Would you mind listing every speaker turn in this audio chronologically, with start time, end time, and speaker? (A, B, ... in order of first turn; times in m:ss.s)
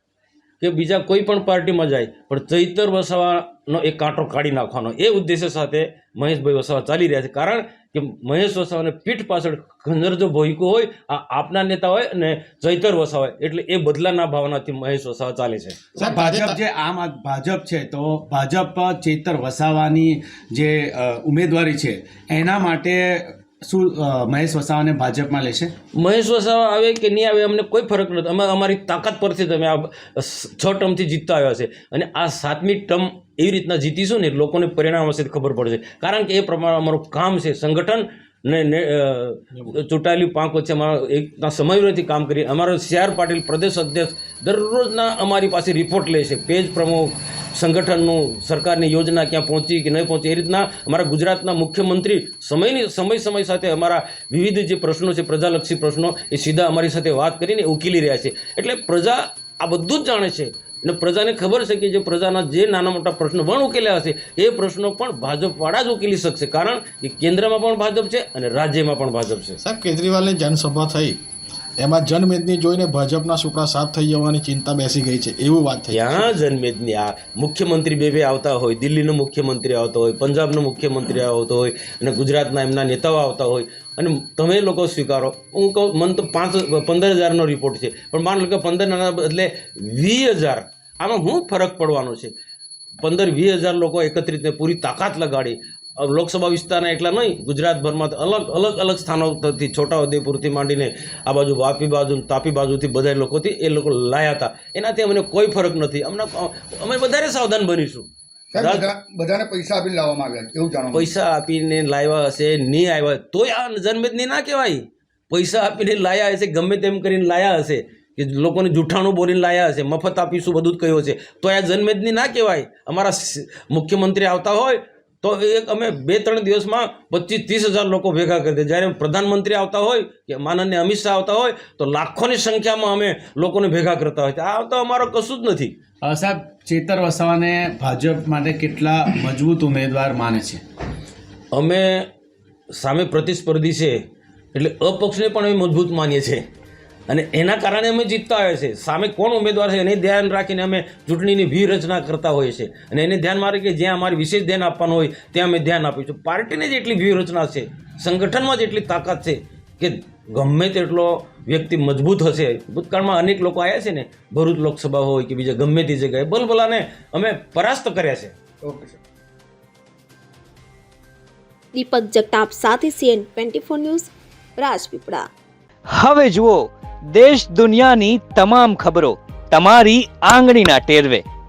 0:00.6-0:15.8 A
0:15.9-0:16.6 B
0:16.0-0:25.7 C
0:25.9-1:09.6 A
1:09.6-1:11.2 B
1:11.8-1:16.3 B
1:15.9-1:32.3 A
1:33.0-1:48.9 A
1:48.5-1:51.1 D
1:50.9-2:15.7 A
2:16.0-2:20.6 C
2:21.5-2:22.1 A
2:22.7-2:24.0 A
2:24.5-2:26.4 A
2:27.1-2:48.3 A
2:48.6-2:49.0 D
2:51.7-2:55.3 E
2:55.9-3:01.2 F